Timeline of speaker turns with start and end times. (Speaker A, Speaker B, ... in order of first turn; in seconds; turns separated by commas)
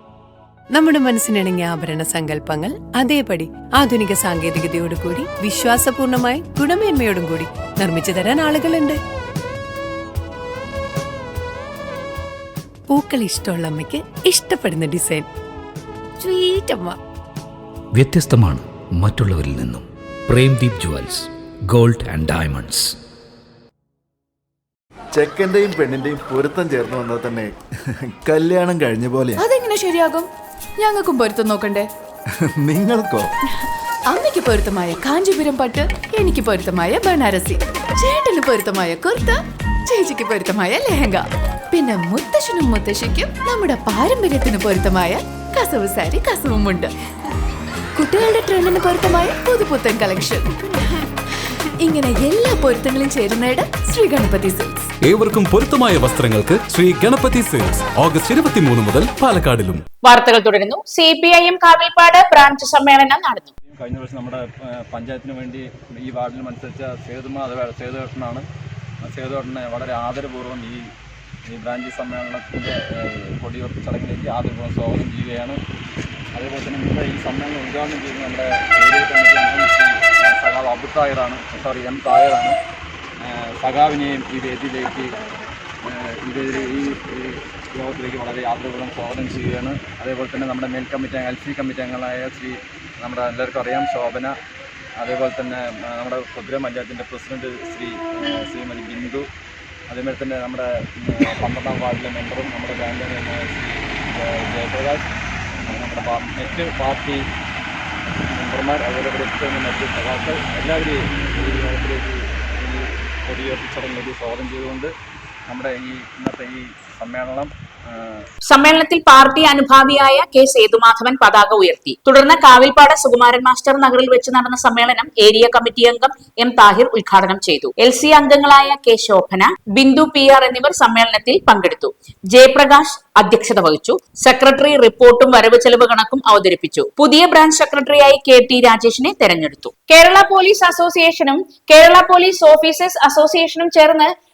Speaker A: 0.7-9.0, Speaker A: 12.9-15.2, Speaker A: 16.2-17.0, Speaker B: 17.9-22.9, Speaker C: 25.1-27.5, Speaker C: 28.1-29.4, Speaker D: 29.4-30.3, Speaker D: 30.8-31.9, Speaker C: 32.5-33.3, Speaker D: 34.1-46.9, Speaker D: 48.0-50.6, Speaker D: 51.8-54.9, Speaker E: 55.1-59.8, Speaker F: 60.0-63.5, Speaker G: 63.7-68.4, Speaker G: 69.0-70.8, Speaker G: 71.5-75.6, Speaker G: 76.3-82.6, Speaker G: 83.2-85.1, Speaker G: 85.8-94.3, Speaker G: 95.0-99.2, Speaker G: 99.9-105.0, Speaker G: 105.6-107.2, Speaker G: 108.3-114.9, Speaker G: 115.5-118.2, Speaker F: 118.5-144.1